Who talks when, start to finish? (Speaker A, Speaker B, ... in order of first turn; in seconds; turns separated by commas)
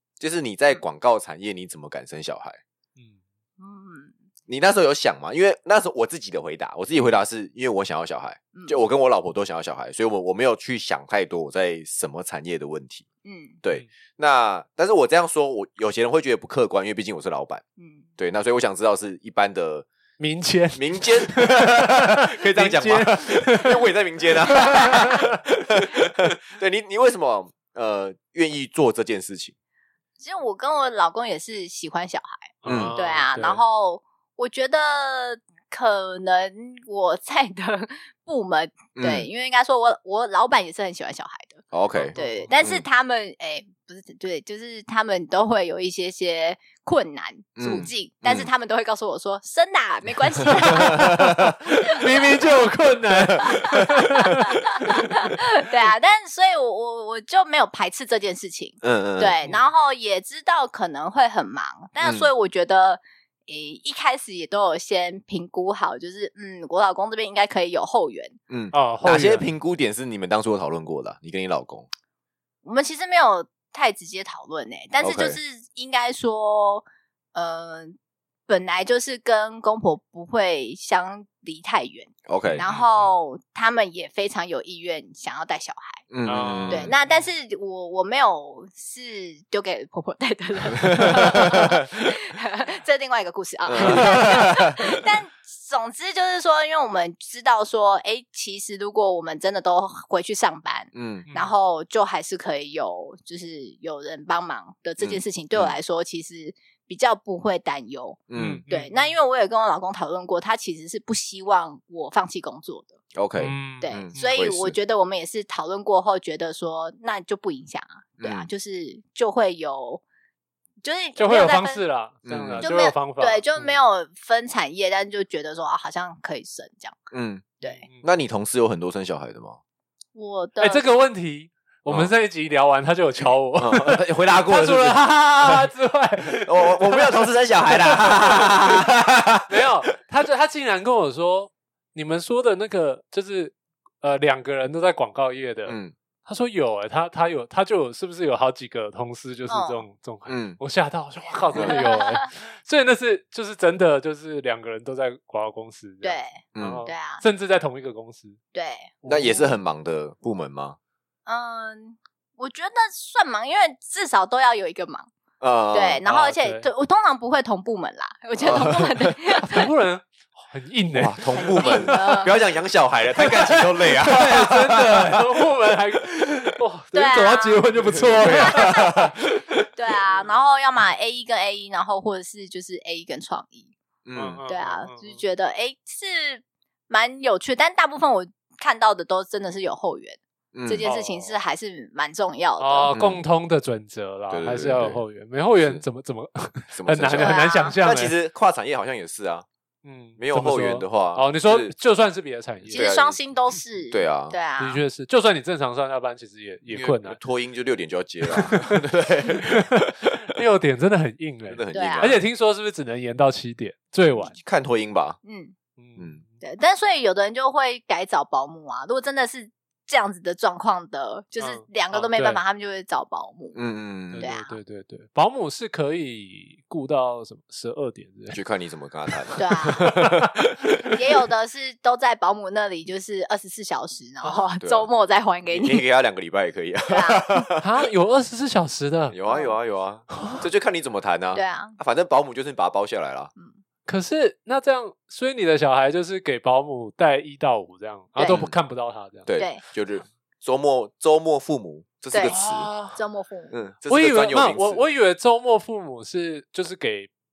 Speaker A: 0.2-2.6, Speaker B: 3.6-4.1, Speaker A: 4.5-13.1, Speaker B: 8.5-8.8, Speaker B: 13.2-13.6, Speaker A: 13.6-17.6, Speaker B: 17.8-18.1, Speaker A: 18.2-19.9, Speaker C: 20.2-25.3, Speaker A: 20.7-29.5, Speaker B: 30.2-51.0, Speaker C: 32.6-33.6, Speaker A: 32.6-33.0, Speaker A: 39.0-39.3, Speaker A: 41.7-42.8, Speaker C: 42.0-42.5, Speaker A: 47.6-48.5, Speaker C: 50.6-55.0, Speaker A: 50.8-51.5, Speaker B: 51.9-52.3, Speaker A: 53.3-54.0, Speaker B: 53.4-68.4, Speaker A: 58.8-59.4, Speaker A: 62.0-62.3, Speaker A: 68.5-71.9, Speaker C: 68.7-69.5, Speaker B: 72.6-78.0, Speaker A: 75.0-75.4, Speaker B: 78.5-86.0, Speaker A: 82.3-82.6, Speaker C: 82.6-83.1, Speaker A: 86.1-86.9, Speaker C: 86.2-87.3, Speaker B: 86.7-112.9, Speaker A: 90.8-91.9, Speaker A: 93.7-95.0, Speaker C: 93.8-94.1, Speaker A: 100.9-101.3, Speaker C: 101.3-101.6, Speaker A: 105.0-105.8, Speaker A: 108.3-108.6, Speaker C: 108.3-109.1, Speaker A: 113.1-114.8, Speaker C: 113.4-114.3, Speaker B: 113.8-120.0, Speaker A: 118.2-118.5, Speaker B: 120.8-121.8, Speaker C: 121.2-123.7, Speaker A: 122.2-122.7, Speaker B: 122.6-127.0, Speaker A: 127.1-127.5, Speaker B: 127.6-127.8, Speaker C: 127.6-128.0, Speaker A: 128.0-129.6, Speaker B: 130.1-130.8, Speaker C: 130.6-138.9, Speaker A: 133.2-135.7, Speaker A: 136.3-139.6, Speaker C: 139.5-158.4, Speaker A: 145.7-145.9, Speaker B: 149.5-149.8, Speaker A: 150.3-150.6, Speaker A: 151.5-151.8, Speaker B: 151.5-152.3, Speaker B: 156.0-157.2, Speaker A: 156.5-156.8, Speaker B: 158.5-158.9, Speaker C: 159.0-159.5, Speaker A: 159.1-160.8, Speaker B: 161.2-165.1, Speaker A: 165.4-166.0, Speaker B: 165.7-169.7, Speaker C: 166.0-166.7, Speaker A: 168.4-169.1, Speaker C: 169.4-172.0, Speaker A: 170.9-175.2, Speaker B: 171.4-172.3, Speaker C: 173.2-179.1, Speaker B: 176.9-179.1, Speaker A: 177.8-179.1, Speaker B: 179.7-183.7, Speaker C: 180.1-180.3, Speaker A: 184.1-184.4, Speaker C: 184.1-185.2, Speaker B: 184.5-192.9, Speaker A: 190.5-190.8, Speaker C: 190.8-191.4, Speaker C: 192.6-198.1, Speaker A: 192.9-193.2, Speaker A: 194.3-195.0, Speaker A: 196.7-199.4, Speaker B: 197.2-197.7, Speaker C: 199.8-202.9, Speaker A: 200.2-201.7, Speaker A: 202.6-203.2, Speaker B: 202.7-204.8, Speaker A: 203.9-204.3, Speaker C: 204.6-207.2, Speaker A: 206.7-210.2, Speaker C: 208.3-208.8, Speaker C: 209.4-214.3, Speaker A: 211.5-212.2, Speaker B: 211.7-212.2, Speaker A: 214.3-215.2, Speaker B: 215.2-215.5, Speaker C: 215.8-216.4, Speaker B: 216.4-223.6, Speaker C: 221.4-222.4, Speaker A: 223.5-224.3, Speaker C: 224.1-228.4, Speaker B: 224.2-224.5, Speaker A: 228.3-231.0, Speaker C: 229.1-230.2, Speaker B: 229.4-229.9, Speaker B: 230.9-235.8, Speaker A: 234.6-234.9, Speaker A: 235.5-237.7, Speaker B: 236.9-237.5, Speaker C: 237.6-239.2, Speaker A: 239.1-243.3, Speaker B: 239.3-239.5, Speaker C: 240.1-240.4, Speaker B: 241.3-241.8, Speaker C: 243.8-249.3, Speaker B: 248.2-248.4, Speaker A: 248.2-248.6, Speaker A: 249.2-252.7, Speaker B: 249.3-249.6, Speaker B: 252.1-252.4, Speaker C: 252.3-253.0, Speaker B: 252.9-253.5, Speaker A: 253.5-254.8, Speaker C: 253.9-257.1